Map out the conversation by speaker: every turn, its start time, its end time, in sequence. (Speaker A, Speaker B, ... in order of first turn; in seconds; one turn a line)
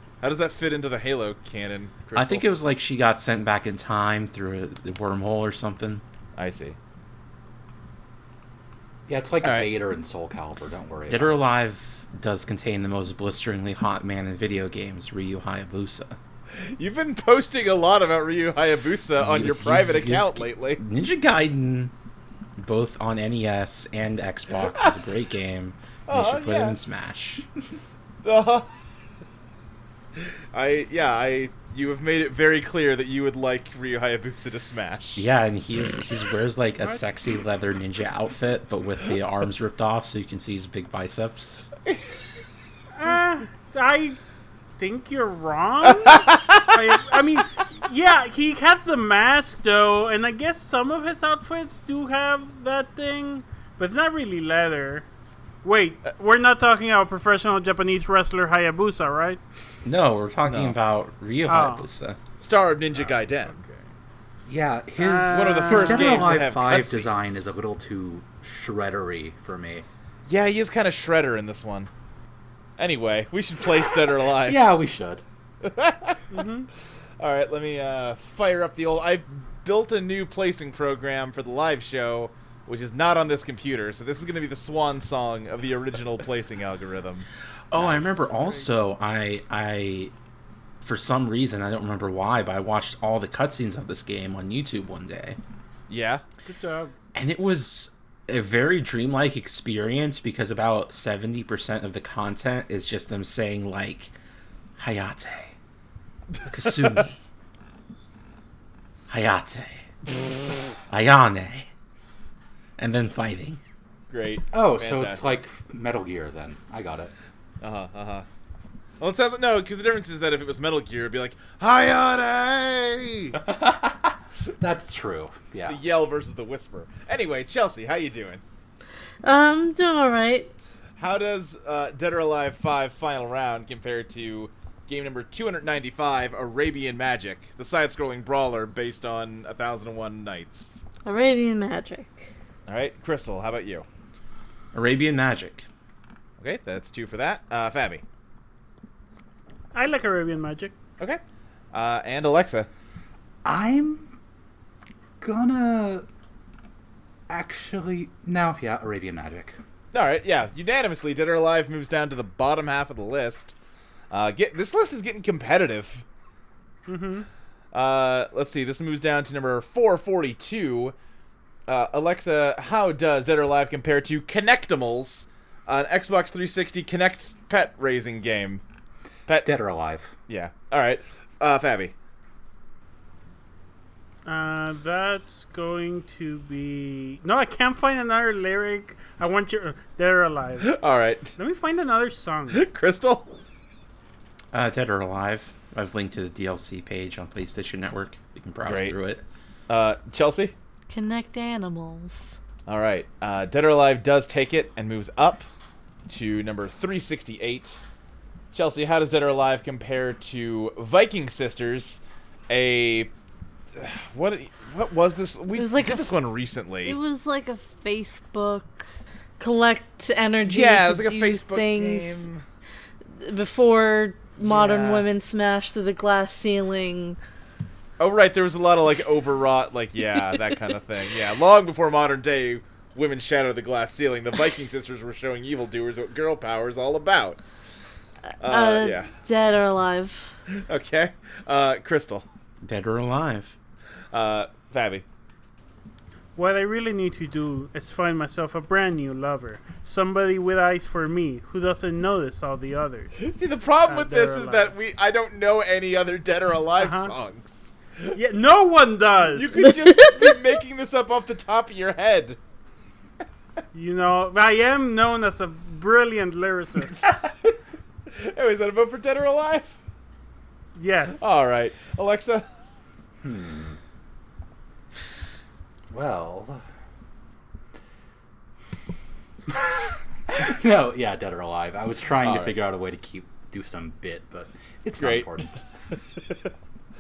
Speaker A: 0.2-2.5
Speaker B: 2.2-6.0
Speaker A: 6.4-6.8
Speaker C: 9.1-11.4
Speaker A: 9.4-9.7
Speaker B: 11.1-16.2
Speaker A: 16.5-20.8
Speaker B: 19.2-21.9
Speaker B: 22.6-27.5
Speaker A: 24.6-24.9
Speaker A: 26.1-26.8
Speaker A: 28.2-28.7
Speaker A: 30.5-35.3
Speaker B: 35.2-41.7
Speaker D: 42.9-44.2
Speaker D: 44.8-55.1
Speaker A: 46.0-46.8
Speaker D: 55.6-59.4
Speaker B: 59.9-62.2
Speaker A: 60.5-60.8
Speaker D: 61.5-61.9
Speaker A: 62.4-63.6
Speaker C: 64.5-69.9
Speaker D: 65.0-66.5
Speaker A: 65.3-67.5
Speaker A: 70.3-71.9
Speaker A: 72.8-74.6
Speaker C: 74.3-75.2
Speaker A: 75.6-76.2
Speaker D: 76.3-76.7
Speaker A: 77.2-87.3
Speaker B: 87.7-90.1
Speaker A: 87.8-88.2
Speaker D: 88.2-88.7
Speaker B: 90.8-95.4
Speaker A: 95.9-96.2
Speaker D: 96.4-96.9
Speaker B: 97.2-104.1
Speaker B: 104.8-105.5
Speaker A: 106.4-107.0
Speaker B: 106.5-107.2
Speaker B: 109.1-109.8
Speaker B: 110.9-111.7
Speaker B: 112.8-113.6
Speaker A: 114.1-115.3
Speaker C: 114.5-117.1
Speaker A: 117.6-118.3
Speaker A: 119.0-123.4
Speaker C: 123.3-125.8
Speaker A: 125.6-128.4
Speaker E: 129.2-130.5
Speaker A: 131.0-140.8
Speaker E: 141.1-142.3
Speaker A: 142.7-143.9
Speaker B: 144.7-145.7
Speaker A: 146.4-148.0
Speaker D: 149.7-150.8
Speaker A: 151.7-152.7
Speaker C: 153.4-154.2
Speaker C: 155.2-156.1
Speaker C: 157.3-159.6
Speaker A: 159.9-163.6
Speaker A: 164.1-166.1
Speaker D: 166.9-167.3
Speaker A: 167.7-170.9
Speaker A: 171.7-178.6
Speaker A: 179.3-179.5
Speaker C: 179.4-180.2
Speaker A: 180.3-181.9
Speaker D: 184.3-190.7
Speaker A: 190.6-191.3
Speaker D: 191.4-192.7
Speaker A: 192.5-193.3
Speaker B: 194.5-199.2
Speaker A: 198.7-198.9
Speaker A: 199.7-200.5
Speaker E: 200.9-202.4
Speaker A: 202.7-205.5
Speaker A: 206.1-207.8
Speaker A: 208.5-213.1
Speaker A: 213.8-217.0
Speaker E: 215.5-216.1
Speaker E: 216.8-218.9
Speaker E: 219.4-222.3
Speaker A: 220.4-222.4
Speaker E: 223.2-227.2
Speaker A: 224.4-225.1
Speaker A: 228.0-237.4
Speaker A: 238.4-239.1
Speaker E: 238.4-240.4
Speaker A: 240.5-242.3
Speaker B: 242.6-243.6
Speaker A: 244.1-245.1
Speaker D: 246.4-253.2
Speaker A: 253.2-257.7
Speaker D: 253.9-254.7
Speaker D: 256.8-257.1
Speaker D: 258.1-259.5
Speaker A: 259.3-262.4
Speaker E: 259.6-260.4
Speaker D: 263.7-267.1
Speaker A: 267.0-267.6
Speaker A: 268.1-269.8
Speaker D: 270.8-271.3
Speaker A: 271.2-272.4
Speaker C: 273.2-273.8
Speaker C: 275.9-276.6
Speaker C: 279.5-285.6
Speaker A: 282.2-282.6
Speaker A: 285.0-285.3
Speaker A: 285.9-286.5